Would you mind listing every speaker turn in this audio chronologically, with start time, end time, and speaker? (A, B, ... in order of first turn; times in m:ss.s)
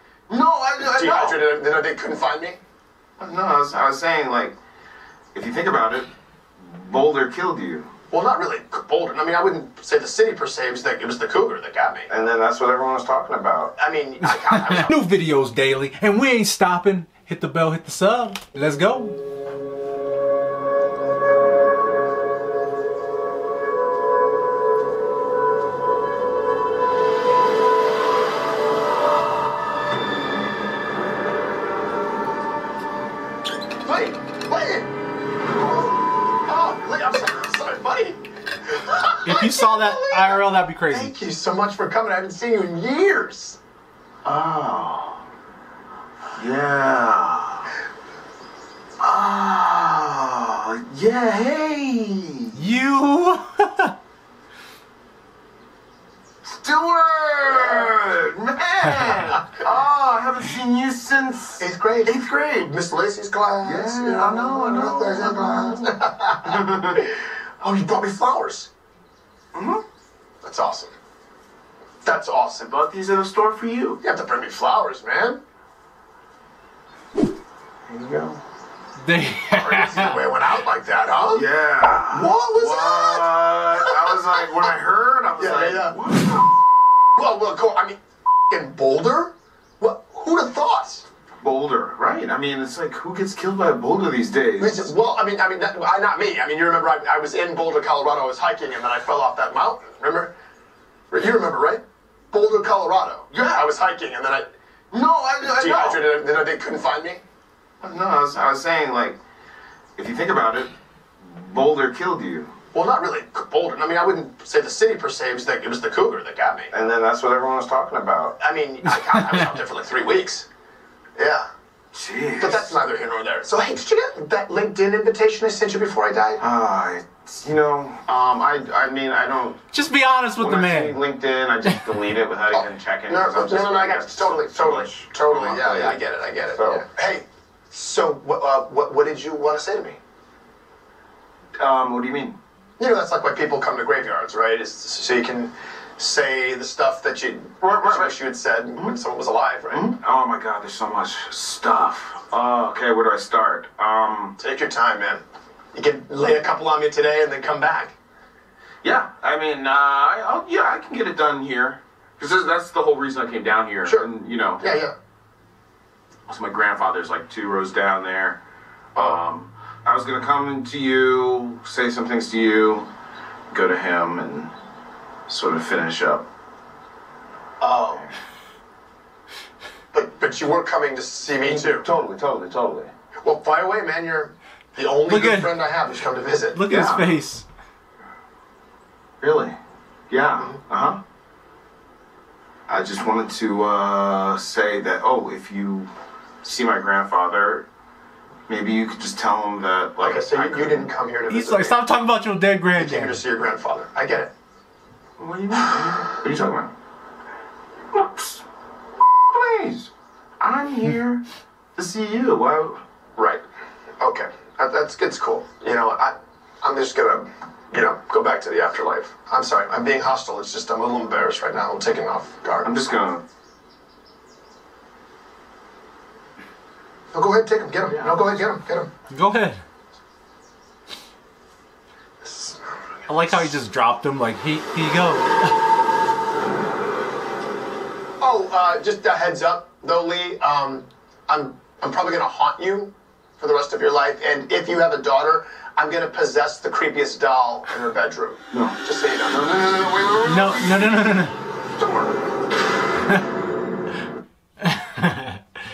0:00.3-0:01.4 A
0:00.8-0:02.6 B
0:03.2-0:04.6 A
0:05.3-0:07.9 A
0:08.1-0:12.1 B
0:12.1-0:13.7 A
0:13.8-0:15.0 B
0:14.2-0:19.2 C
0:33.8-0:34.9 B
0:35.6-0:43.6 B
0:39.2-0:41.1 C
0:44.2-0:45.2 A
0:46.4-0:47.6 A
0:49.0-0:52.7 A
0:52.5-0:53.9 C
0:56.4-1:02.7 A
0:57.5-0:57.8 B
1:01.6-1:08.7 B
1:03.6-1:05.9 A
1:06.5-1:06.9 A
1:09.5-1:09.8 A
1:10.4-1:10.9 B
1:12.0-1:12.7 B
1:12.6-1:14.0 A
1:14.0-1:15.4 B
1:17.9-1:18.4 A
1:19.0-1:20.2 C
1:19.5-1:21.5 B
1:21.3-1:26.5 A
1:22.1-1:24.7 B
1:25.4-1:26.0 B
1:27.2-1:28.0 B
1:28.5-1:31.0 B
1:31.4-1:34.9 A
1:34.6-1:40.3 B
1:41.1-1:44.5 B
1:43.3-1:43.6 A
1:44.9-1:46.0 A
1:45.4-1:47.2 B
1:47.8-1:49.2 A
1:50.0-1:52.5 A
1:52.7-1:56.7 B
1:56.7-1:58.4 A
1:58.4-2:00.5 B
1:59.1-1:59.6 C
2:01.2-2:01.5 B
2:01.9-2:02.7 A
2:02.4-2:06.4 B
2:06.4-2:09.6 A
2:09.7-2:11.0 C
2:10.4-2:16.0 A
2:12.5-2:20.0 B
2:16.5-2:16.8 A
2:21.6-2:22.4 A
2:22.8-2:29.9 B
2:27.6-2:28.1 A
2:29.7-2:34.3 A
2:34.4-2:35.2 B
2:35.7-2:38.0 B
2:38.8-2:44.8 A
2:44.6-2:44.9 B
2:46.3-2:48.4 A
2:48.9-2:52.9 A
2:49.0-2:49.2 B
2:53.5-2:54.5 A
2:55.3-2:56.2 A
2:57.6-2:58.0 B
2:59.9-3:01.9 B
3:01.4-3:02.9 A
3:03.2-3:06.6 B
3:05.1-3:05.6 C
3:06.5-3:07.4 C
3:06.7-3:07.1 A
3:09.2-3:09.6 A
3:10.1-3:11.0 A
3:12.7-3:15.9 A
3:16.4-3:17.6 A
3:18.5-3:20.9 A
3:20.0-3:21.8 B
3:21.3-3:23.2 C
3:22.8-3:24.3 B
3:25.2-3:26.7 A
3:27.9-3:28.4 A
3:29.3-3:31.2 A
3:31.8-3:32.8 A
3:33.2-3:33.4 B
3:34.0-3:42.8 B
3:42.6-3:43.2 A
3:47.1-3:48.9 B
3:47.9-3:48.3 A
3:49.1-3:49.6 C
3:52.2-3:52.7 B
3:53.1-3:55.6 C
3:58.2-4:09.5 B
4:09.3-4:11.0 A
4:10.2-4:11.4 C
4:11.8-4:12.1 A
4:14.6-4:15.4 C